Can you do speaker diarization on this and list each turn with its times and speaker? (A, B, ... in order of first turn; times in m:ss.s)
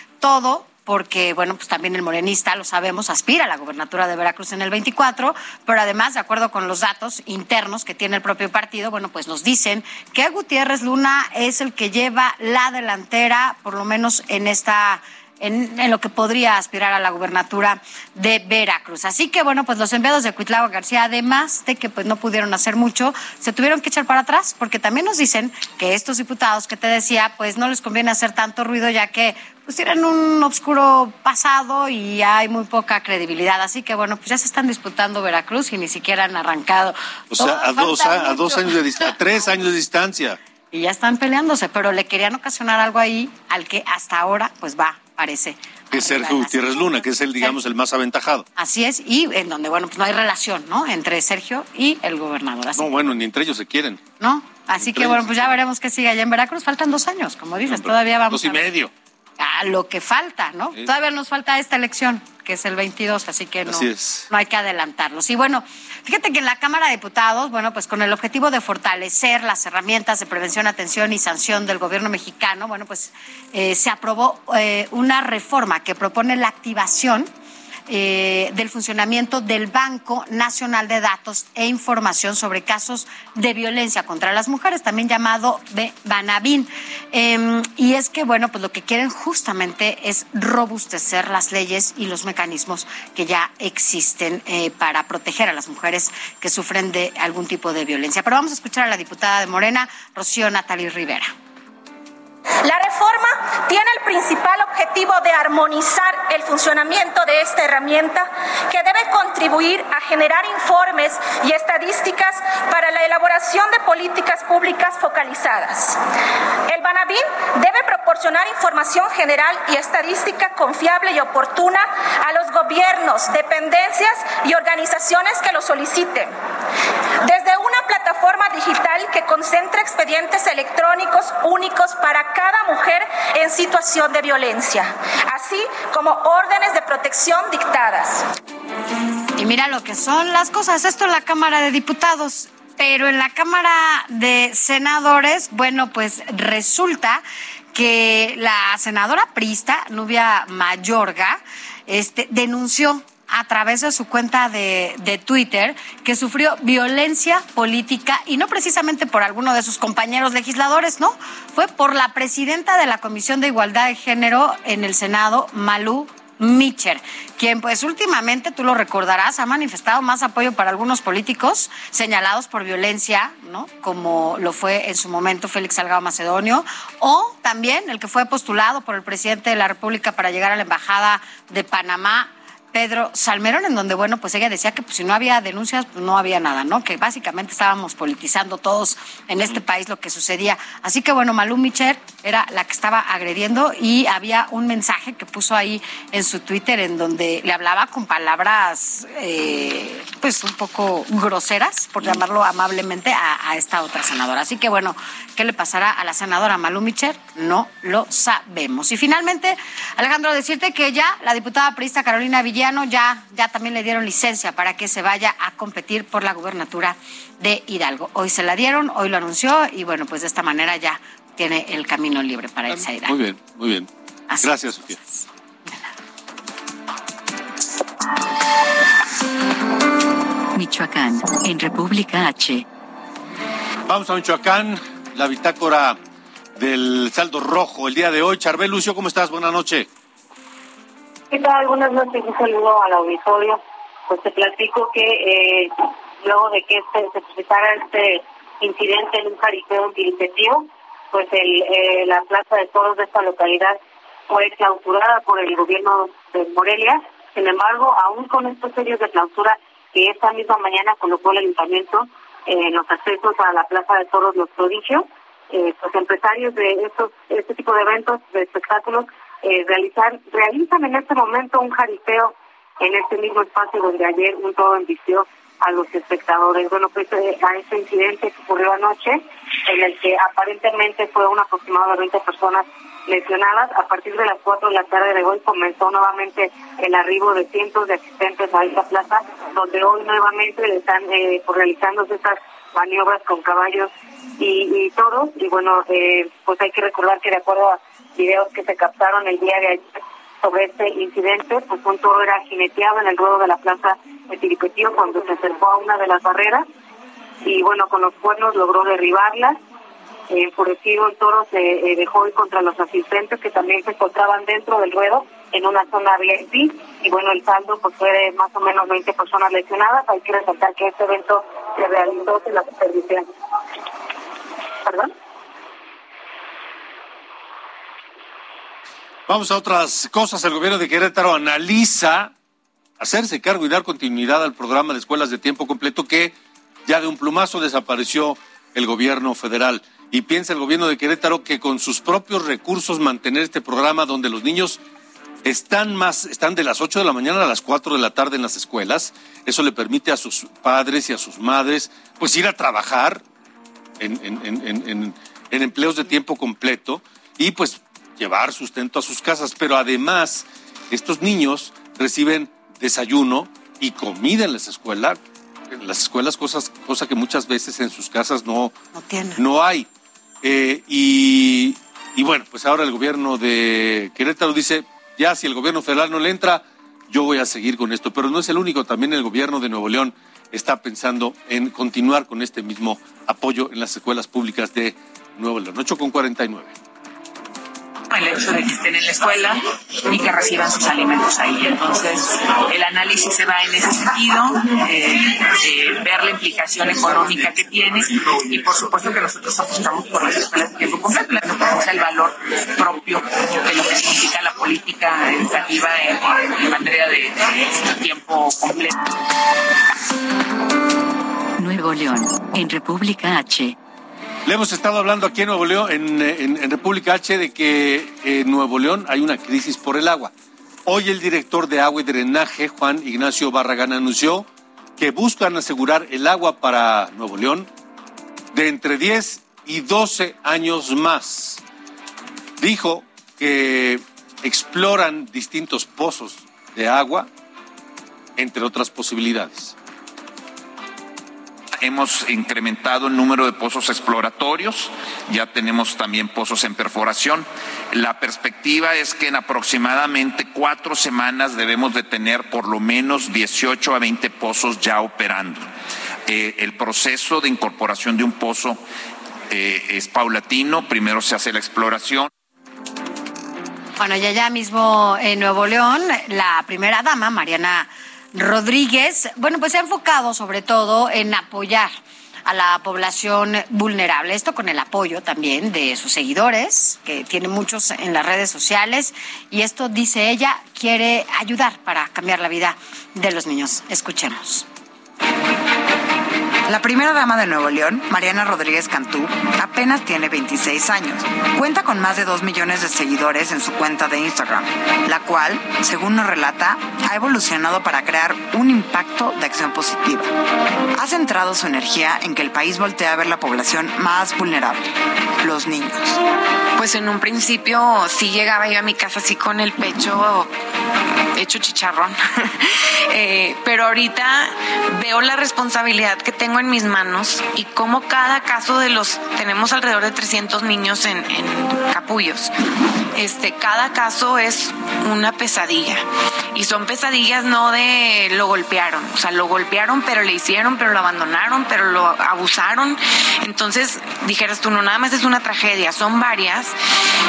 0:00.2-0:39.1 A
0:37.3-0:40.4 B
0:40.7-0:47.6 A
0:45.9-0:48.4 B
0:48.6-0:52.9 A
0:52.7-0:54.0 B
0:54.2-0:58.7 A
0:54.8-0:55.6 B
0:57.6-0:58.9 B
0:59.4-1:17.3 A
1:03.7-1:04.3 B
1:17.9-1:41.3 A
1:42.6-1:56.0 C
1:56.7-2:06.3 C
2:07.2-2:18.3 C
2:19.4-2:27.2 A
2:27.7-3:43.2 A
3:42.7-3:43.9 B
3:44.3-3:45.7 A
3:44.4-3:45.0 B
3:50.5-3:52.6 D
3:53.9-3:56.0 B
3:56.6-3:59.9 B
4:01.3-4:13.8 E
4:14.3-5:06.6 E
5:07.4-5:09.6 E
5:10.3-5:23.2 E
5:24.8-5:25.1 E
5:29.3-5:32.3 B
5:33.0-5:44.8 B
5:45.4-5:53.2 B
5:54.0-6:05.2 B
6:05.7-6:08.7 B
6:08.9-6:09.4 A
6:09.4-6:09.9 B
6:10.4-6:26.7 B
6:28.1-6:48.9 F
6:51.6-6:53.8 D
6:54.4-7:00.3 B
7:00.8-7:07.7 B
7:08.5-7:11.6 B
7:12.6-7:17.3 B
7:18.4-7:19.7 B
7:21.8-7:35.7 G
7:36.3-7:38.8 G
7:39.5-7:42.3 G
7:44.0-7:51.9 A
7:52.4-8:04.6 A
8:06.6-8:20.3 H
8:21.0-8:26.2 H
8:26.8-8:30.5 I
8:31.3-8:42.5 I
8:43.1-8:56.7 I